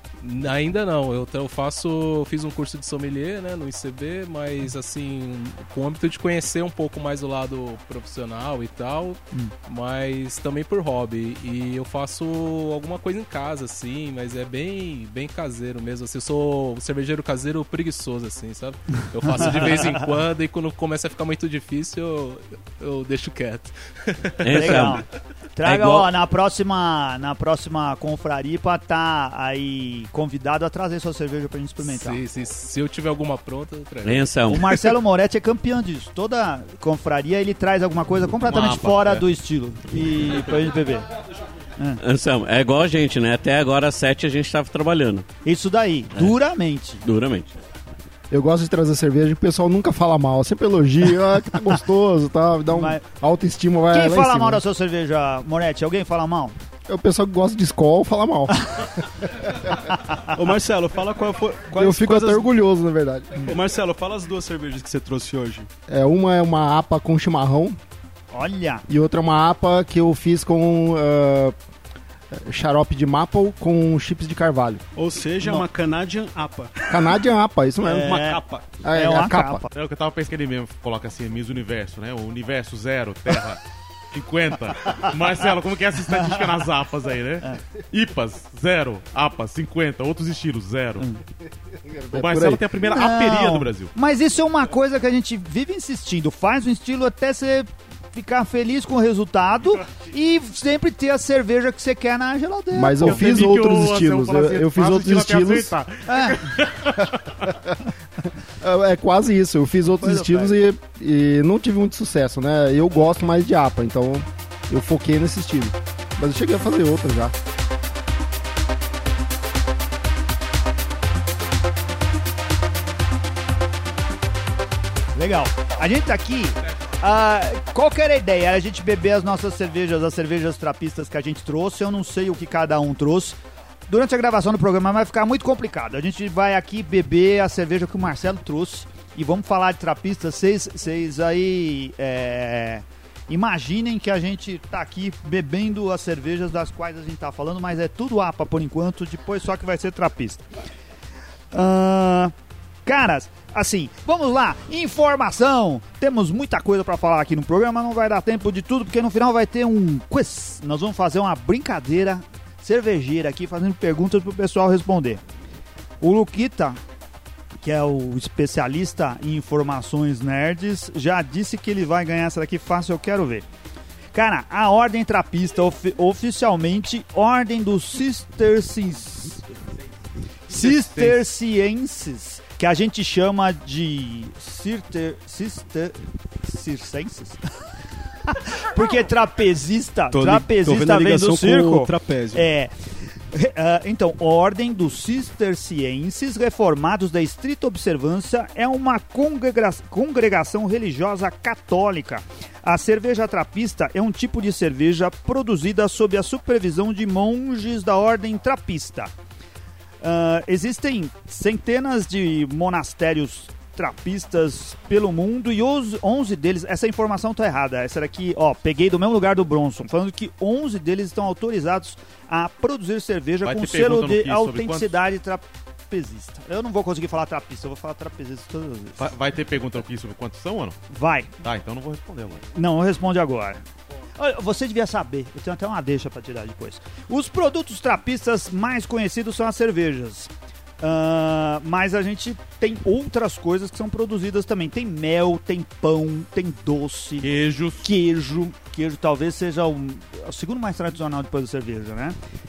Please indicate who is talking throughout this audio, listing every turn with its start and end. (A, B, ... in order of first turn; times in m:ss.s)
0:00.2-0:24.7 A
0:19.2-0:20.0 B
0:24.4-0:25.0 C
0:24.5-0:25.0 B
0:25.6-0:32.2 B
0:25.6-0:26.1 C
0:31.8-0:34.3 A
0:34.0-0:34.9 C
0:34.5-0:41.0 B
0:38.4-0:39.2 D
0:42.0-0:45.2 C
0:45.4-0:47.0 B
0:47.0-0:47.5 C
0:48.3-0:54.6 E
0:52.7-0:53.0 B
0:53.9-0:56.6 B
0:56.9-0:58.7 E
1:00.2-1:02.5 F
1:01.7-1:03.6 E
1:03.4-1:05.7 F
1:05.9-1:07.8 E
1:08.3-1:08.8 B
1:08.9-1:11.5 E
1:12.3-1:14.8 E
1:14.9-1:16.9 F
1:16.9-1:18.3 E
1:17.8-1:19.7 B
1:18.1-1:18.7 F
1:18.8-1:19.6 E
1:19.7-1:23.6 D
1:24.1-1:31.0 D
1:31.8-1:32.6 E
1:32.1-1:33.9 D
1:32.8-1:43.4 B
1:42.7-1:45.7 E
1:43.0-1:47.5 D
1:46.0-1:46.6 B
1:48.6-1:57.3 E
1:50.0-1:50.6 B
2:05.1-2:13.4 B
2:13.9-2:30.4 B
2:31.5-2:32.3 B
2:32.8-2:45.2 B
2:46.0-2:46.8 B
2:47.6-2:53.4 B
2:54.1-2:59.5 B
3:00.5-3:07.4 B
3:00.5-3:01.2 D
3:08.2-3:12.7 B
3:10.1-3:12.5 F
3:13.3-3:29.1 B
3:30.0-3:49.1 B
3:43.4-3:44.9 D
3:49.0-3:50.8 D
3:50.9-3:51.3 B
3:51.4-3:52.4 D
3:52.5-3:53.6 B
3:54.2-4:07.3 B
4:07.2-4:07.9 D
4:07.8-4:12.2 B